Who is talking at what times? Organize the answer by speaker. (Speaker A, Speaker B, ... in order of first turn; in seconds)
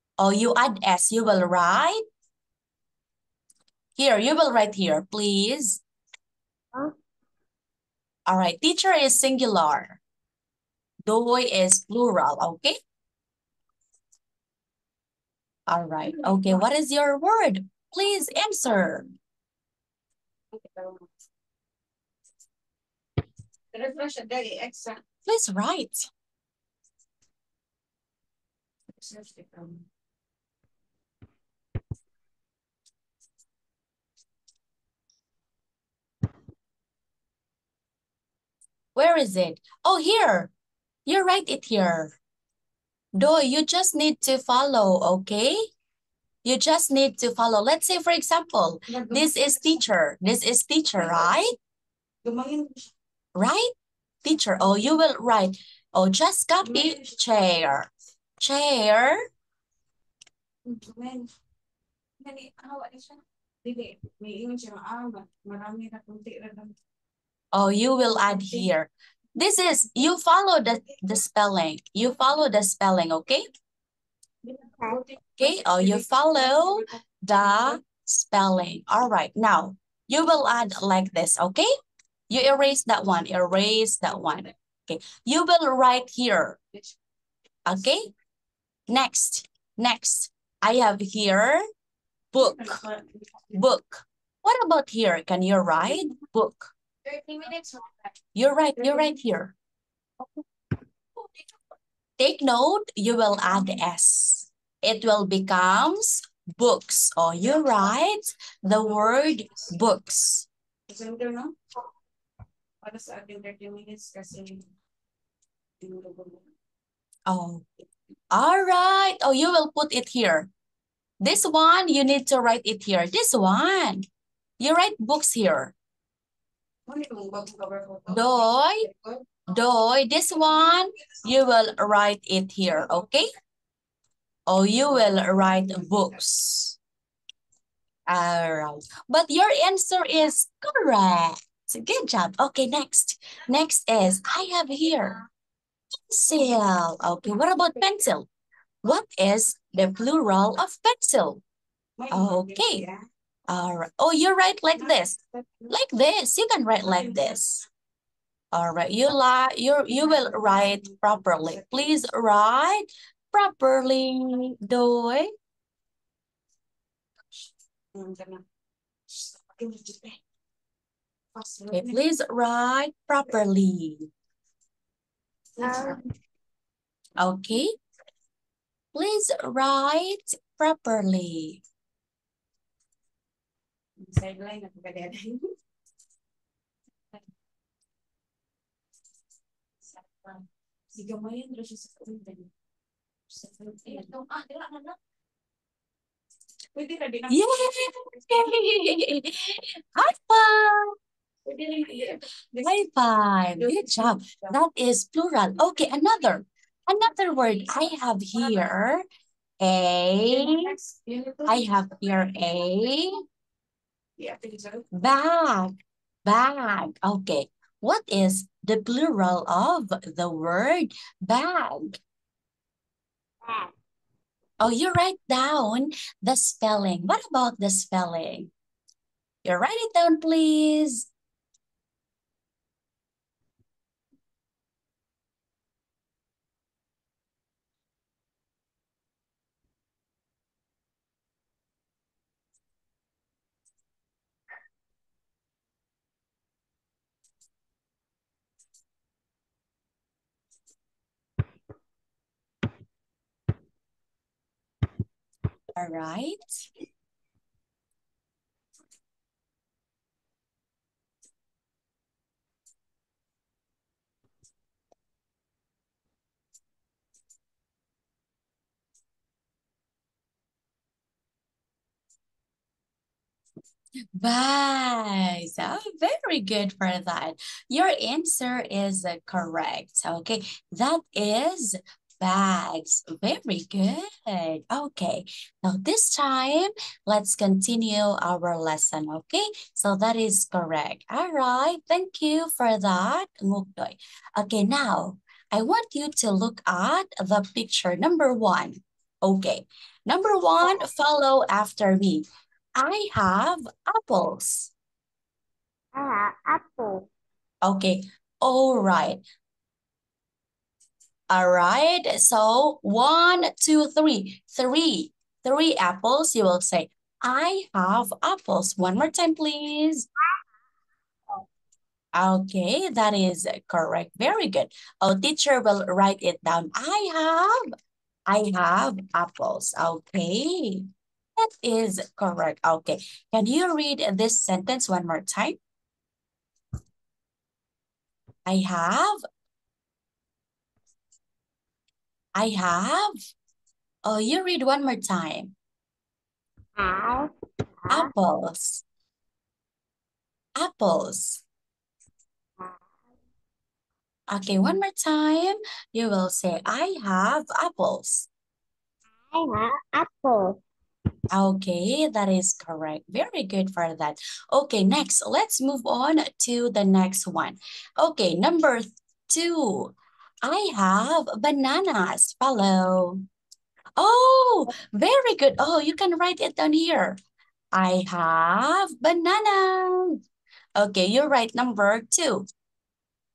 Speaker A: 0.2-2.0, 4.0-5.8, 8.3-10.0, 11.1-12.8, 15.7-19.1, 25.3-26.1, 39.0-40.5, 41.1-42.2, 43.2-45.6, 46.4-51.5, 53.4-53.7, 54.2-59.2, 67.5-73.4, 75.4-81.7, 82.3-86.6, 87.7-88.1, 88.9-91.6, 92.3-92.8, 93.5-96.7, 98.3-99.5, 102.2-110.5, 117.3-117.7, 118.3-120.5, 121.2-124.0, 124.6-125.8, 128.1-128.8, 129.5-133.3, 134.5-136.8, 138.1-145.2, 146.1-148.3, 148.8-151.4, 152.1-152.8, 153.5-155.2, 155.7-157.6, 158.5-165.3, 171.7-174.1, 177.2-177.7, 178.9-181.6, 197.3-200.9, 202.6-209.0, 209.6-210.8, 211.4-213.2, 214.9-215.7, 216.3-222.0, 224.6-228.5, 229.4-231.1, 255.8-256.5, 274.2-302.2, 302.8-304.7, 307.6-309.2, 311.3-320.1, 322.2-327.6, 328.3-335.6, 338.5-339.2, 342.4-343.1, 344.1-345.5, 347.9-348.8, 350.6-351.4, 354.3-358.3, 361.3-369.9, 370.4-373.2, 374.0-377.2, 377.7-380.2, 380.8-382.5
Speaker B: 20.5-21.1, 23.7-25.0, 29.0-29.9, 48.9-49.8, 52.2-52.8, 56.6-57.0, 60.7-61.3, 62.2-66.7, 74.5-76.8, 92.4-93.2, 97.1-97.9, 110.9-111.5, 112.8-114.7, 115.8-116.5, 126.9-128.9, 152.0-153.0, 154.8-155.7, 160.1-160.8, 167.4-168.4, 169.1-170.2, 171.3-172.0, 175.6-176.0, 184.0-185.5, 189.9-192.5, 193.3-195.0, 196.8-197.7, 201.5-202.7, 203.6-204.5, 210.3-211.7, 214.2-214.9
Speaker C: 175.6-176.0, 223.4-223.7, 305.9-307.1, 346.8-347.3, 359.3-360.6